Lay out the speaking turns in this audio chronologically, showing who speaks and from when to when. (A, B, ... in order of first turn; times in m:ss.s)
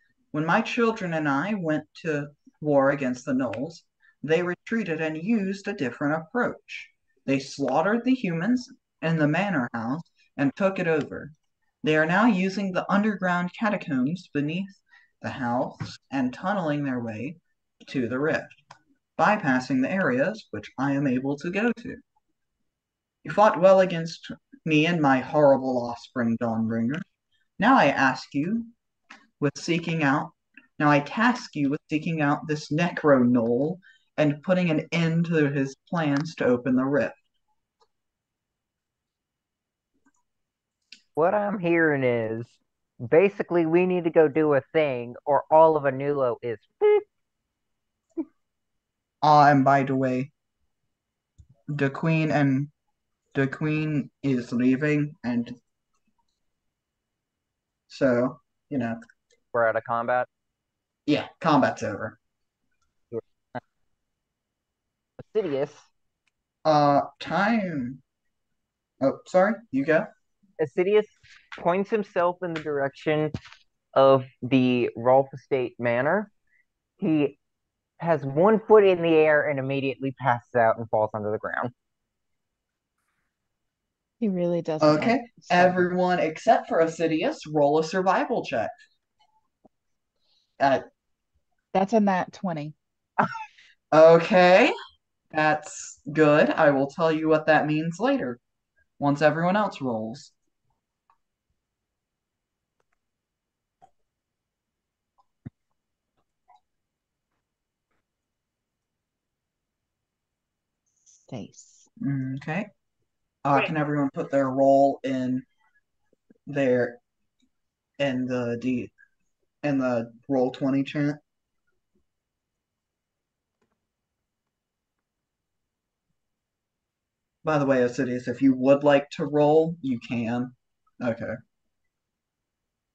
0:00.3-0:18.6 A
0:19.2-0:22.0 A
0:23.2-0:27.0 A
0:27.6-0:28.7 A
0:29.4-0:37.2 A
0:41.2-0:47.0 B
0:49.2-0:50.3 A
0:51.7-0:52.7 A
0:53.3-0:55.6 A
0:57.9-0:59.0 A
0:59.5-1:00.3 B
1:01.1-1:02.2 A
1:03.1-1:03.6 B
1:05.2-1:05.9 B
1:06.6-1:08.0 A
1:09.0-1:10.1 A
1:10.6-1:13.4 B
1:13.9-1:16.3 B
1:17.0-1:17.4 B
1:18.0-1:21.7 B
1:24.2-1:25.8 C
1:24.8-1:28.7 A
1:31.7-1:32.8 C
1:33.9-1:34.7 A
1:35.3-1:38.4 A
1:39.0-1:40.3 A
1:51.2-1:51.9 C
1:52.0-1:52.7 A
1:53.4-1:55.5 A
1:56.5-1:57.0 A
1:58.0-1:58.9 A
1:59.6-2:01.2 A
2:07.4-2:11.4 A